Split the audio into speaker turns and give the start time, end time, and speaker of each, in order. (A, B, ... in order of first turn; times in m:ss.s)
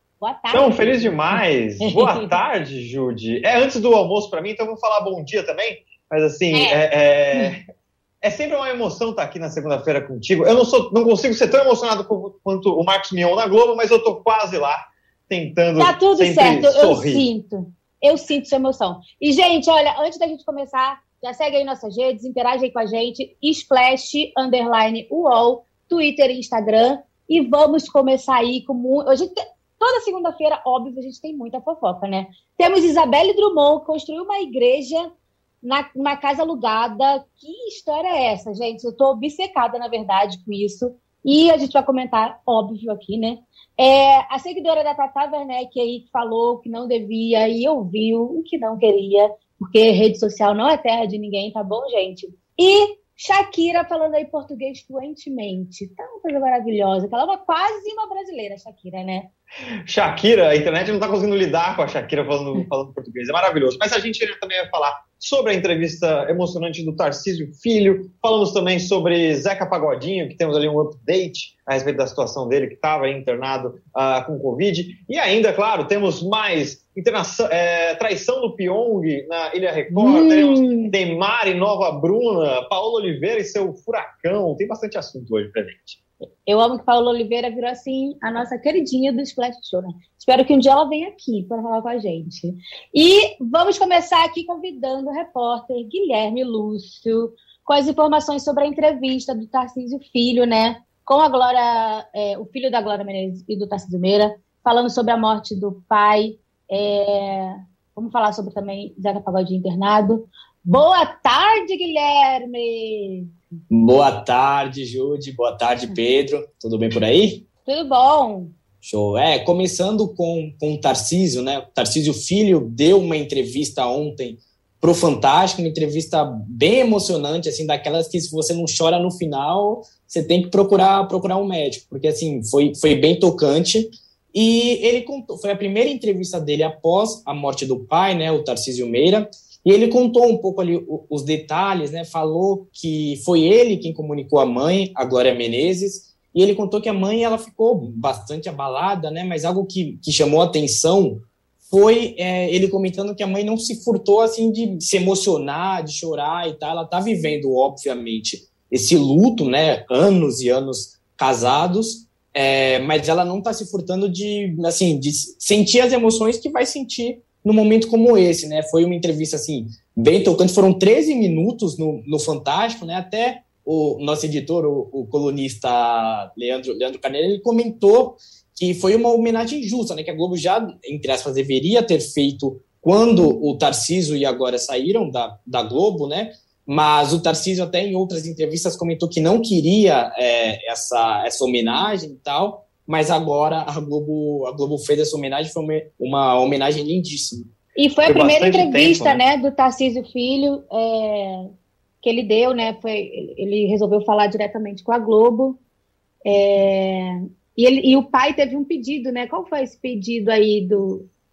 0:00.2-0:01.2 A
0:00.5-0:07.6 B
0:01.9-0:02.3 A
0:06.5-0:06.8 A
0:08.2-0:17.2 B
0:15.8-0:35.1 A
0:35.6-0:59.3 A
0:59.9-1:26.0 B
1:19.9-1:20.9 A
1:26.4-1:53.3 A
1:53.7-1:57.4 C
1:57.6-1:58.5 A
1:58.8-3:17.4 C
3:17.8-3:21.5 A
3:18.0-3:19.2 B
3:22.0-3:25.6 A
3:26.2-3:31.1 A